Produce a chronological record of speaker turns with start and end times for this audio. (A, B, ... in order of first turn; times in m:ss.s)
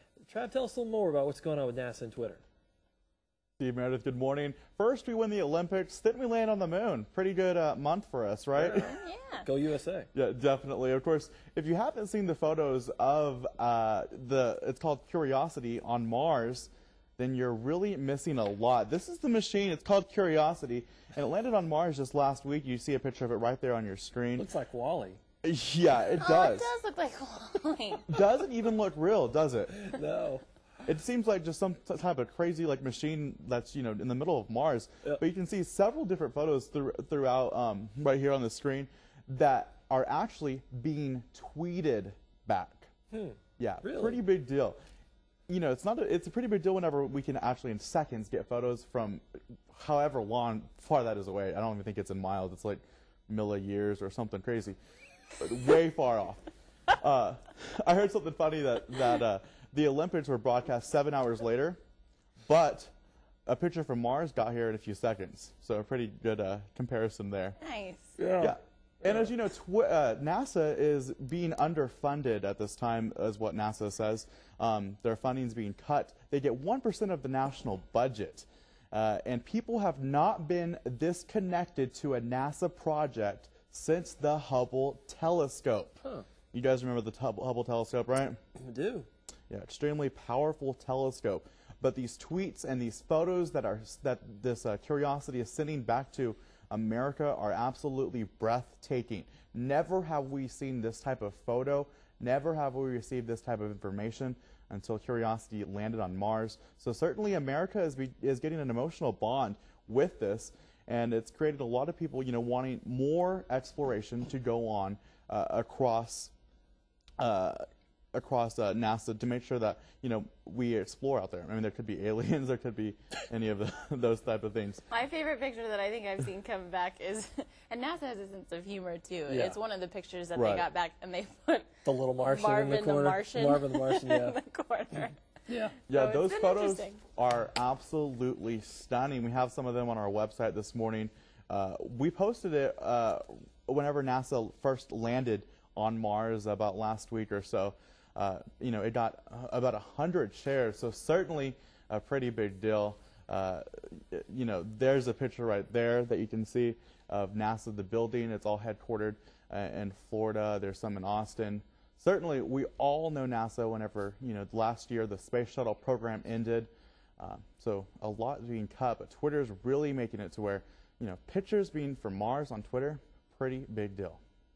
0:00.2-0:02.4 A
0:03.6-0:08.9 B
0:08.6-0:10.1 A
0:08.9-0:09.5 C
0:10.2-0:24.5 B
0:24.4-0:25.2 A
0:25.4-0:26.7 B
0:26.2-0:28.2 C
0:28.1-0:29.9 B
0:29.8-0:30.4 A
0:30.8-0:42.9 B
0:43.1-0:44.2 A
0:43.6-0:44.8 B
0:45.5-0:54.8 B
0:55.4-0:56.4 B
0:57.0-1:01.8 B
1:02.5-1:02.9 B
1:03.5-1:07.6 B
1:07.6-1:08.2 C
1:08.2-1:08.6 A
1:08.4-1:26.0 B
1:26.5-1:28.4 B
1:28.6-1:29.1 A
1:29.5-1:56.3 B
1:57.2-1:57.6 B
1:58.1-2:04.8 B
2:04.9-2:15.2 C
2:09.3-2:09.6 A
2:10.4-2:10.6 B
2:11.8-2:14.4 A
2:15.5-2:15.8 A
2:15.8-2:17.0 C
2:15.9-2:54.2 B